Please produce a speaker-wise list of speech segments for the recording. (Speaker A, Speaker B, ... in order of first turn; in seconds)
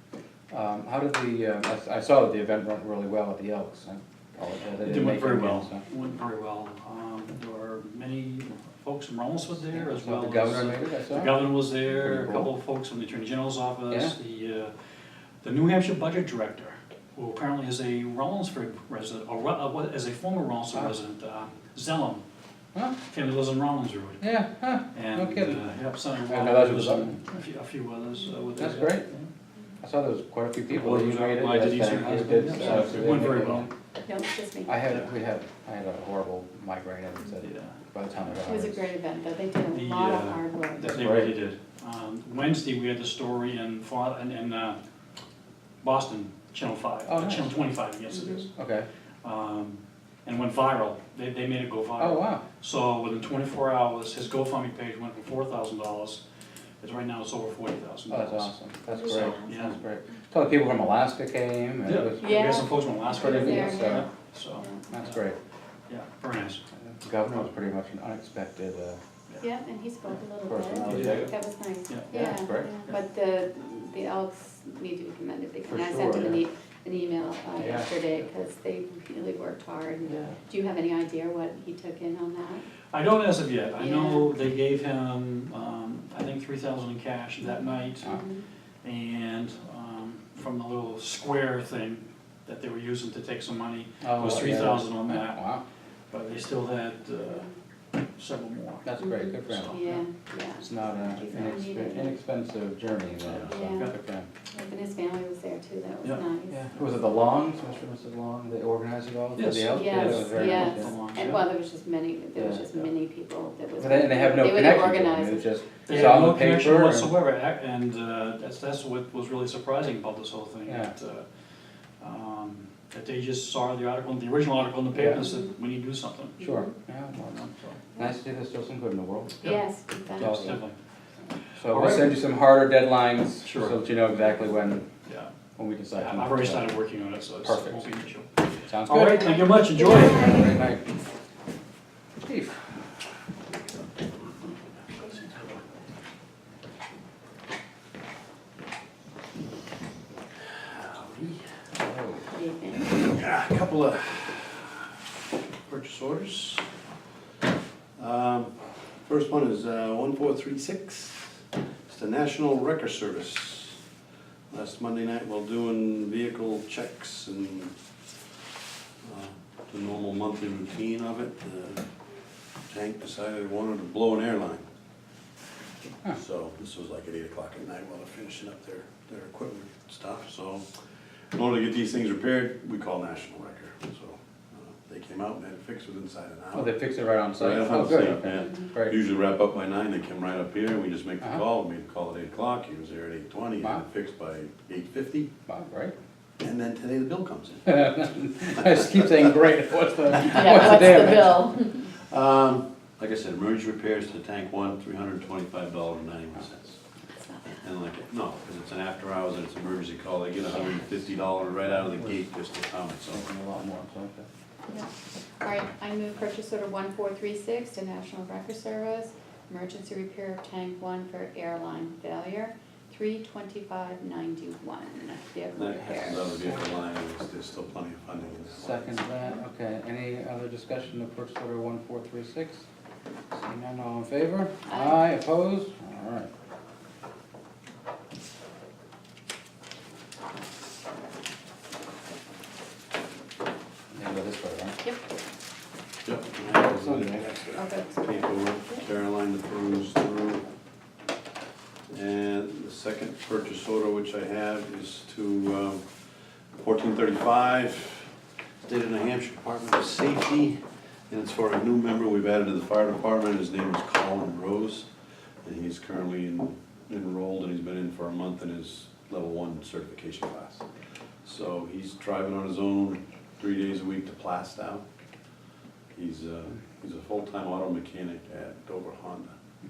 Speaker A: 0.5-5.8, 9.7-12.5, 13.9-14.2, 24.2-25.7, 26.2-27.2, 28.6-29.1, 29.8-33.7, 34.7-38.9, 40.8-41.3, 47.1-47.6, 48.5-48.9, 52.0-52.4, 58.1-62.3, 63.1-64.1, 64.9-65.4, 66.8-69.0, 70.5-71.3, 72.1-72.8, 75.7-76.4, 77.6-77.9, 80.1-80.4, 94.0-95.6, 98.8-99.8, 100.6-104.3, 106.5-111.0, 112.4-112.7, 113.8-117.1, 120.7-120.9, 124.9-125.3, 126.4-127.4, 128.0-129.6, 130.2-130.6, 131.6-134.8, 135.6-136.7, 137.4-137.9, 138.7-140.8, 142.2-142.7, 151.8-152.2, 186.5-188.9, 195.5-195.9, 197.7-201.5, 213.1-214.2, 226.3-226.6, 228.5-232.6, 233.3-236.3, 243.9-244.8, 246.4-247.2
Speaker B: 4.8-14.7, 15.4-22.2, 23.1-24.3, 24.9-29.3, 30.7-33.7, 37.4-37.8, 39.7-44.8, 45.8-48.5, 49.2-56.2, 56.8-58.5, 59.1-59.8, 61.8-65.2, 65.9-66.6, 70.8-71.3, 71.9-72.3, 82.9-88.2, 88.8-95.4, 96.1-97.5, 98.2-98.9, 99.5-100.0, 103.5-103.9, 109.3-111.4, 115.9-121.2, 122.0-126.4, 127.2-127.8, 130.2-130.8, 131.7-132.2, 133.4-133.8, 135.1-135.3, 135.9-140.3
Speaker C: 34.0-34.9, 38.5-41.0, 48.1-48.5, 58.9-59.7, 62.2-64.8, 69.4-82.7, 83.8-84.3, 87.4-88.5, 99.0-102.2, 103.4-103.9, 104.5-106.7, 109.7-115.5, 126.4-126.7, 129.4-130.6, 139.1-140.6, 152.3-153.0, 200.2-201.9, 207.1-207.6, 215.4-226.3, 234.7-235.0, 247.5-248.8
Speaker D: 150.5-151.4, 152.9-154.8, 155.7-156.6, 158.0-158.5, 159.1-161.3, 161.9-163.8, 164.5-167.7, 169.0-171.8, 172.7-174.6, 176.1-180.7, 181.3-186.7, 187.3-195.3, 196.4-197.8, 198.7-199.1, 200.6-201.0, 202.0-206.8, 207.6-213.2, 225.6-229.1, 246.0-250.4, 251.9-255.8, 256.6-258.1, 258.6-260.6, 261.1-264.9, 265.4-270.6, 271.2-274.8, 275.9-279.3